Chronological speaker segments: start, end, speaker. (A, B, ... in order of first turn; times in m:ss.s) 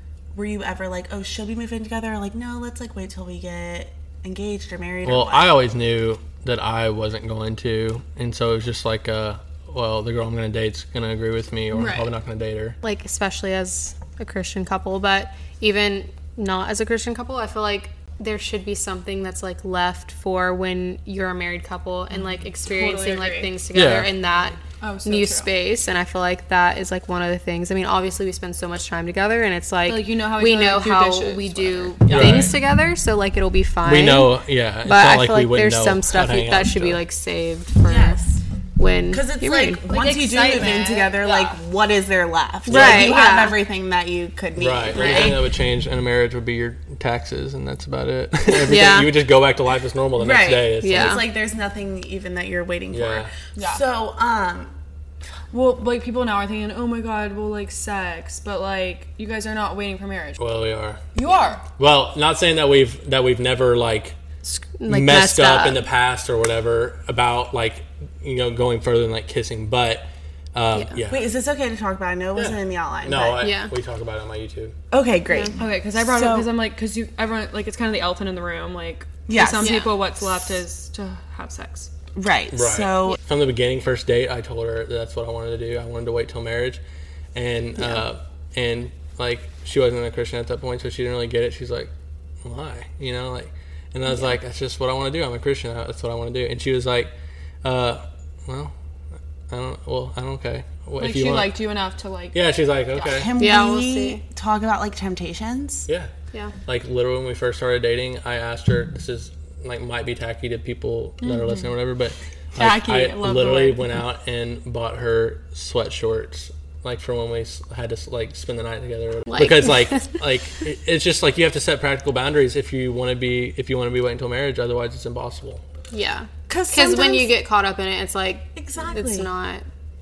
0:00.3-0:05.6 A
0:05.0-0:12.8 B
0:11.7-0:12.1 C
0:12.8-0:38.2 D
0:22.7-0:23.5 C
0:23.7-0:24.1 B
0:24.8-0:25.5 C
0:29.9-0:32.5 C
0:32.1-0:32.5 B
0:33.8-0:37.0 B
0:37.8-0:38.4 A
0:38.8-0:39.8 D
0:39.1-0:45.5 A
0:39.9-0:41.6 C
0:42.6-0:43.6 D
0:42.7-0:43.2 B
0:44.6-0:51.2 B
0:45.0-0:45.3 D
0:48.5-0:49.2 D
0:50.2-0:54.7 A
0:50.8-0:51.2 D
0:52.9-0:53.3 B
0:53.6-0:53.8 C
0:55.5-1:00.5 C
1:00.4-1:01.0 B
1:01.1-1:01.6 C
1:01.2-1:01.5 A
1:01.8-1:04.2 B
1:04.4-1:05.8 D
1:04.9-1:11.3 B
1:10.7-1:11.0 D
1:11.1-1:13.4 A
1:12.3-1:14.8 B
1:13.4-1:13.7 D
1:14.9-1:16.5 A
1:15.6-1:21.9 C
1:19.3-1:19.8 A
1:19.6-1:19.9 D
1:22.2-1:23.2 A
1:22.5-1:26.8 B
1:27.3-1:31.9 B
1:32.4-1:37.1 B
1:34.1-1:34.3 D
1:37.6-1:38.7 B
1:39.5-1:41.6 B
1:41.0-1:43.1 C
1:42.3-1:43.3 B
1:43.0-1:45.9 A
1:43.4-1:44.2 D
1:46.6-2:05.6 B
1:51.2-1:51.7 C
1:52.6-1:53.9 C
1:59.3-2:00.2 D
2:05.9-2:09.6 D
2:06.5-2:07.3 A
2:08.6-2:09.3 A